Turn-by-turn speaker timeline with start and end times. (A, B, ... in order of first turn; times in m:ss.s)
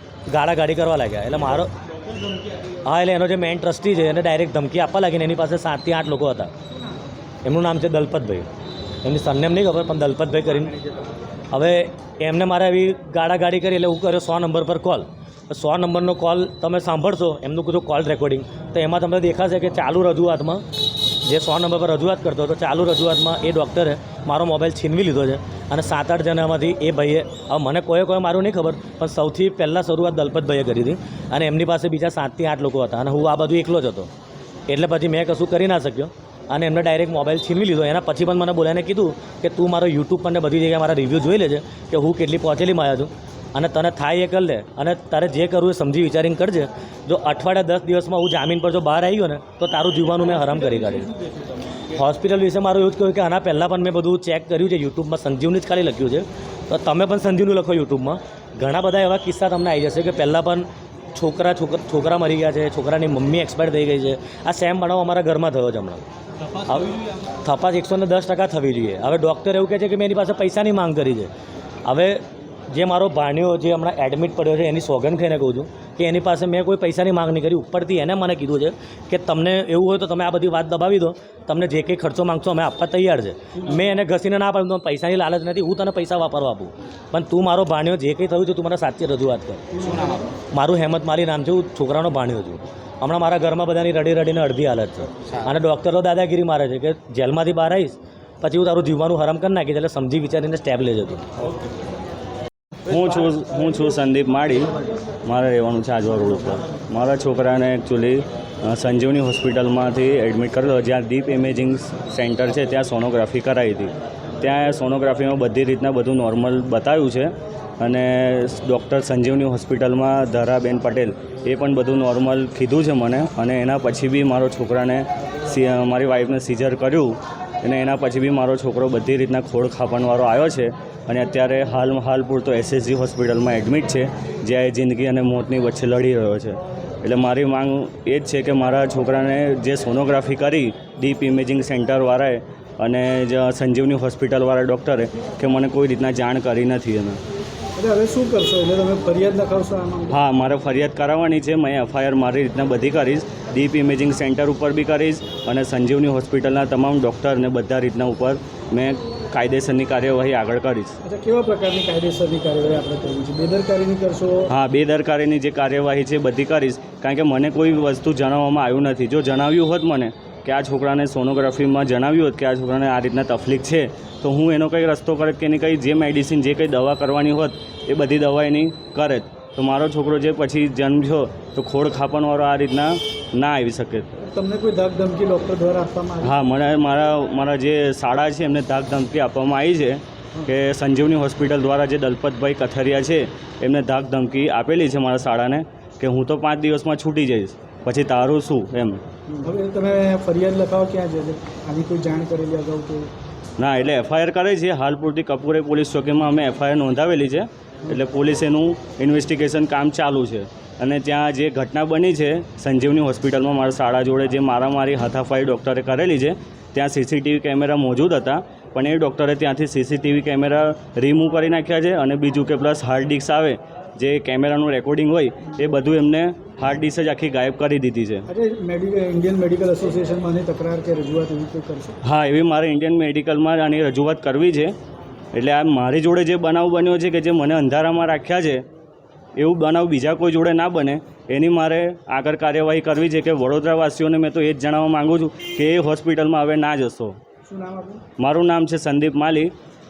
0:00.3-0:01.7 A
0:02.8-0:06.5 A
0:07.4-0:08.5 A
0:09.0-0:10.8 A
0:11.5-0:20.6 A
0:21.2-0:34.1 A
0:34.7-0:51.1 A
0:51.9-1:06.0 A
1:06.6-1:11.3 A
1:11.8-1:29.6 A
1:30.5-1:41.2 A
1:42.8-2:27.2 B
2:27.8-2:30.2 C
2:30.1-2:41.0 B
2:41.1-2:44.4 C
2:44.5-3:04.2 B
3:04.3-3:06.3 C
3:06.2-3:19.0 B
3:19.3-3:23.1 C
3:23.6-3:48.3 B
3:48.3-3:51.9 C
3:52.0-3:54.8 B
3:55.3-3:58.6 B
3:59.4-4:07.2 B
4:07.5-4:08.0 C
4:08.2-4:09.5 B